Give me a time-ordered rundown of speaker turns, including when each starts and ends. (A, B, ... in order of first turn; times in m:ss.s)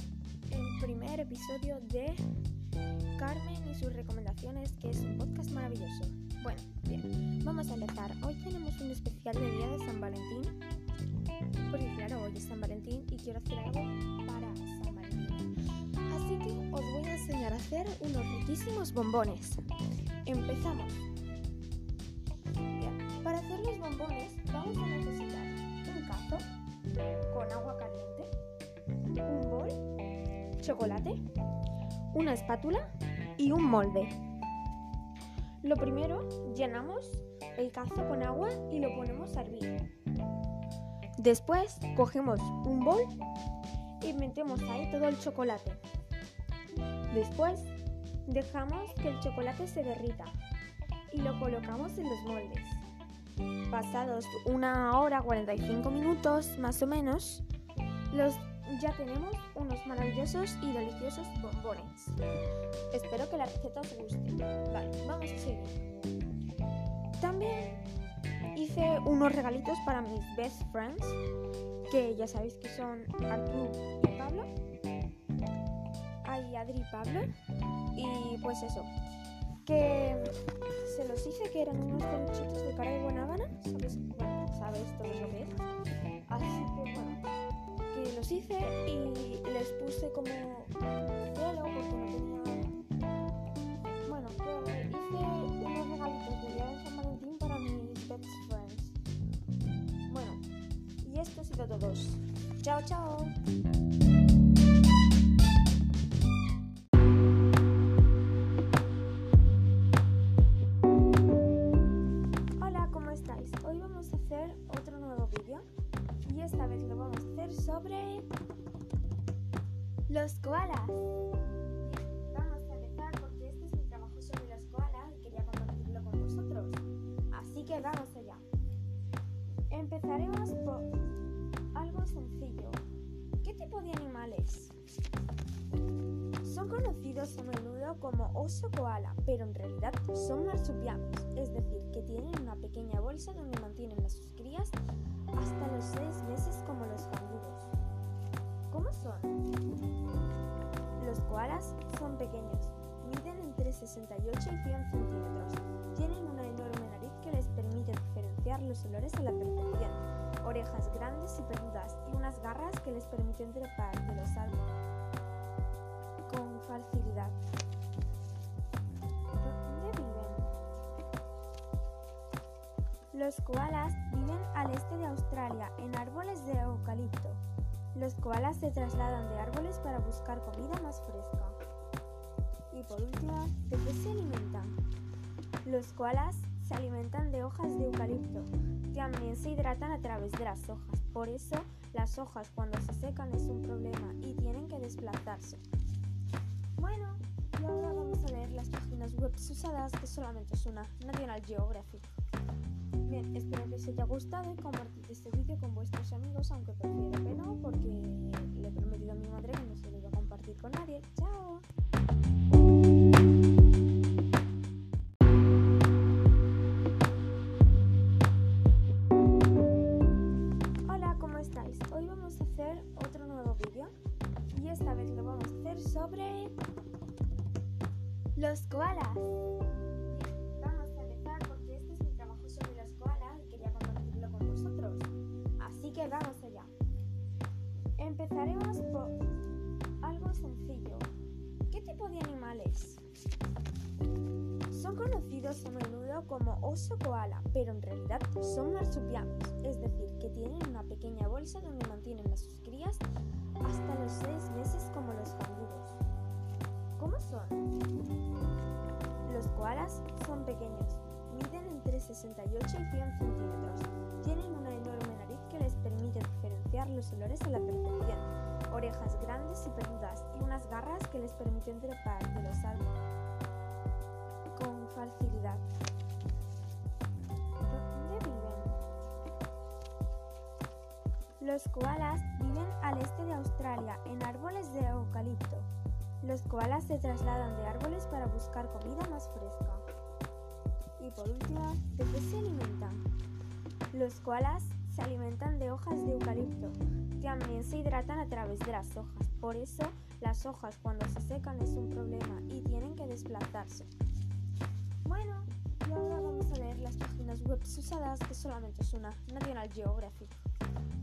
0:00.5-0:02.2 A
0:03.2-0:10.6 A
0:11.7-0:15.5 A
0:16.1-0:19.7 A
0:20.2-0:21.0 A
0:22.8-0:26.5 A
0:27.3-0:28.3 A
0:29.2-0:29.9 A
0:30.6-0:31.2 A
0:32.1-0:34.2 A
0:35.6-0:39.8 A
0:41.2-0:43.3 A
0:44.0-0:45.8 A
0:47.1-0:47.7 A
0:48.3-0:50.4 A
0:51.1-0:52.8 A
0:53.7-0:57.4 A
0:58.1-1:02.2 A
1:02.9-1:05.8 A
1:07.2-1:07.8 A
1:08.5-1:11.2 A
1:11.9-1:14.5 A
1:16.2-1:17.3 A
1:17.9-1:18.9 A
1:19.6-1:25.6 A
1:26.3-1:27.2 A
1:27.9-1:32.8 A
1:34.1-1:39.0 A
1:40.1-1:40.4 A
1:41.0-1:43.4 A
1:52.6-1:55.6 A
1:56.2-1:58.3 A
2:00.1-2:01.1 A
2:01.8-2:08.4 A
2:09.7-2:10.9 A
2:11.7-2:12.8 A
2:13.4-2:14.8 A
2:16.4-2:24.8 A
2:25.4-2:27.7 A
2:28.7-2:29.4 A
2:31.0-2:44.7 A
2:46.3-2:47.4 A
2:49.4-2:50.5 A
2:53.1-2:57.4 A
2:57.9-3:01.6 A
3:02.7-3:04.8 A
3:05.6-3:15.6 A
3:16.8-3:22.1 A
3:23.0-3:31.6 A
3:40.8-3:43.9 A
3:44.5-3:46.6 A
3:48.4-3:49.4 A
3:50.1-3:56.7 A
3:58.0-3:59.2 A
4:00.0-4:01.1 A
4:01.7-4:03.0 A
4:04.7-4:13.1 A
4:13.6-4:16.0 A
4:17.0-4:17.7 A
4:19.2-4:32.9 A
4:34.5-4:35.6 A
4:37.7-4:38.8 A
4:41.4-4:45.7 A
4:46.2-4:49.8 A
4:51.0-4:53.0 A
4:53.9-5:03.9 A
5:05.0-5:10.4 A